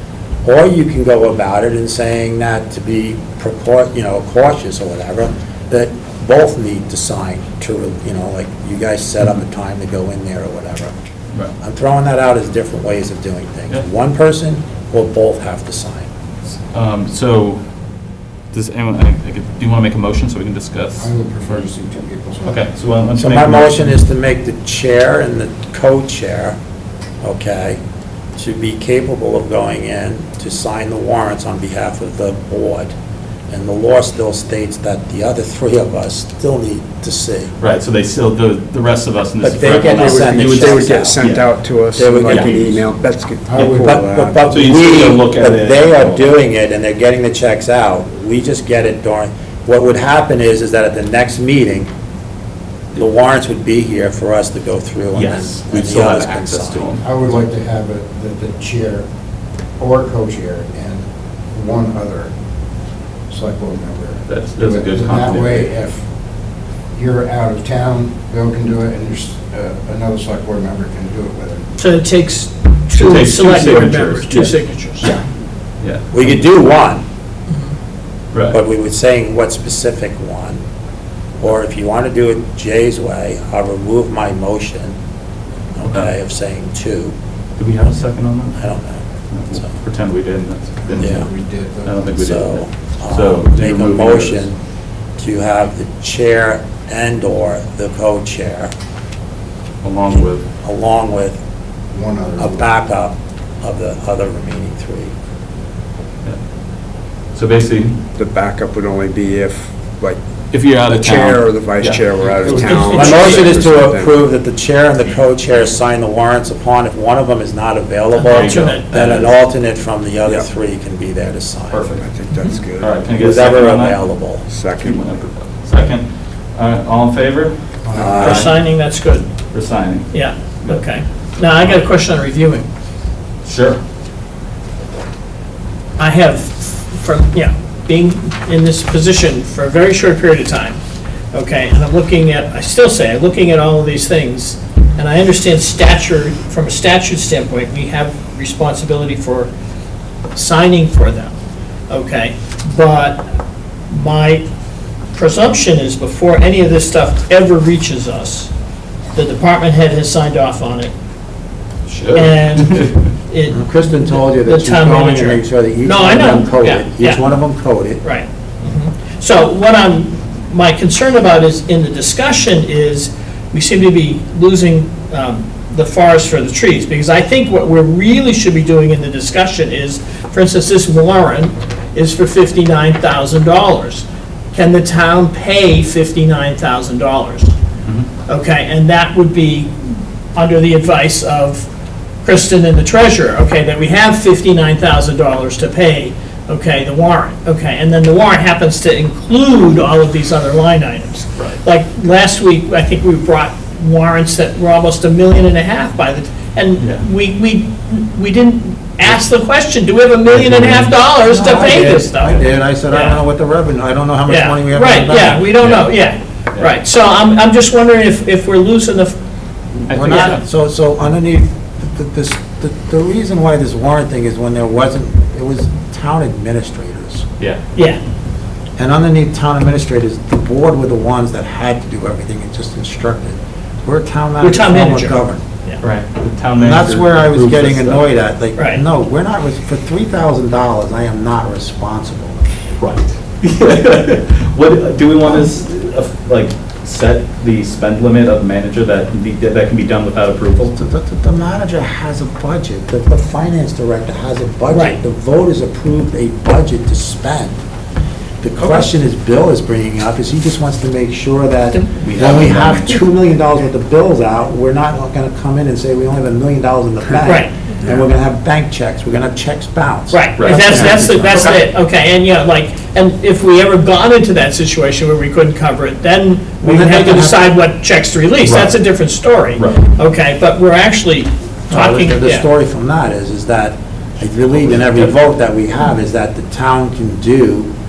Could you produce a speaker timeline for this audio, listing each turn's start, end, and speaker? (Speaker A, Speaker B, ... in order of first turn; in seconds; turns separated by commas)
Speaker A: 0.4-10.9, Speaker A: 11.6-16.1, Speaker B: 16.7-17.6, Speaker B: 18.5-21.1, Speaker C: 21.0-22.6, Speaker B: 22.4-23.9, Speaker A: 23.2-26.6, Speaker A: 27.2-27.8, Speaker A: 28.4-32.9, Speaker A: 33.5-37.5, Speaker B: 37.6-41.5, Speaker A: 39.4-41.2, Speaker D: 40.0-43.4, Speaker C: 41.2-44.5, Speaker A: 42.0-42.8, Speaker B: 43.6-43.8, Speaker A: 43.7-51.9, Speaker B: 44.5-46.3, Speaker A: 52.9-57.0, Speaker B: 55.1-57.1, Speaker C: 57.0-59.1, Speaker C: 59.8-62.3, Speaker C: 63.3-66.0, Speaker B: 64.3-65.7, Speaker C: 66.9-71.7, Speaker E: 71.8-75.1, Speaker B: 72.9-75.2, Speaker B: 75.8-76.3, Speaker A: 76.1-77.0, Speaker A: 78.5-80.6, Speaker A: 81.4-85.0, Speaker A: 85.7-87.1, Speaker B: 87.6-88.6, Speaker A: 88.6-89.7, Speaker B: 89.3-91.3, Speaker C: 90.8-92.0, Speaker A: 91.0-91.3, Speaker B: 91.8-94.5, Speaker A: 92.2-94.6, Speaker A: 95.2-98.7, Speaker B: 99.8-100.5, Speaker A: 100.6-101.4, Speaker C: 101.9-102.7, Speaker A: 102.4-105.1, Speaker B: 107.3-108.0, Speaker D: 108.2-110.2, Speaker B: 110.5-113.8, Speaker D: 110.9-114.1, Speaker C: 112.2-112.7, Speaker E: 112.7-113.5, Speaker A: 112.9-122.0, Speaker B: 118.2-119.3, Speaker E: 118.3-118.8, Speaker B: 121.7-122.0, Speaker D: 122.0-123.0, Speaker B: 122.8-124.1, Speaker A: 123.2-124.4, Speaker D: 124.5-125.1, Speaker B: 124.8-127.6, Speaker C: 127.8-128.4, Speaker A: 127.9-128.5, Speaker E: 128.2-129.3, Speaker B: 128.2-128.6, Speaker B: 129.5-130.1, Speaker E: 130.1-132.7, Speaker B: 133.4-133.8, Speaker E: 136.0-140.8, Speaker E: 141.3-149.5, Speaker E: 150.3-151.4, Speaker E: 151.9-153.2, Speaker E: 153.9-154.5, Speaker E: 155.1-158.5, Speaker E: 159.1-160.9, Speaker B: 161.9-163.0, Speaker E: 162.1-167.2, Speaker A: 163.5-168.0, Speaker E: 168.0-187.5, Speaker E: 188.2-191.7, Speaker E: 192.2-213.2, Speaker B: 206.8-207.0, Speaker A: 210.3-215.5, Speaker E: 214.2-219.2, Speaker B: 215.6-215.9, Speaker B: 219.8-220.4, Speaker A: 219.9-227.3, Speaker E: 220.1-220.4, Speaker A: 228.8-235.4, Speaker E: 234.4-235.8, Speaker B: 235.8-238.1, Speaker A: 236.6-242.4, Speaker E: 238.6-238.8, Speaker B: 242.8-250.7, Speaker A: 250.7-257.6, Speaker E: 254.7-255.0, Speaker A: 258.4-271.5, Speaker B: 262.0-262.9, Speaker E: 267.2-267.6, Speaker E: 270.1-282.5, Speaker B: 270.4-271.6, Speaker A: 276.6-277.5, Speaker B: 278.4-278.8, Speaker B: 279.6-279.8, Speaker A: 281.7-287.7, Speaker B: 284.7-285.1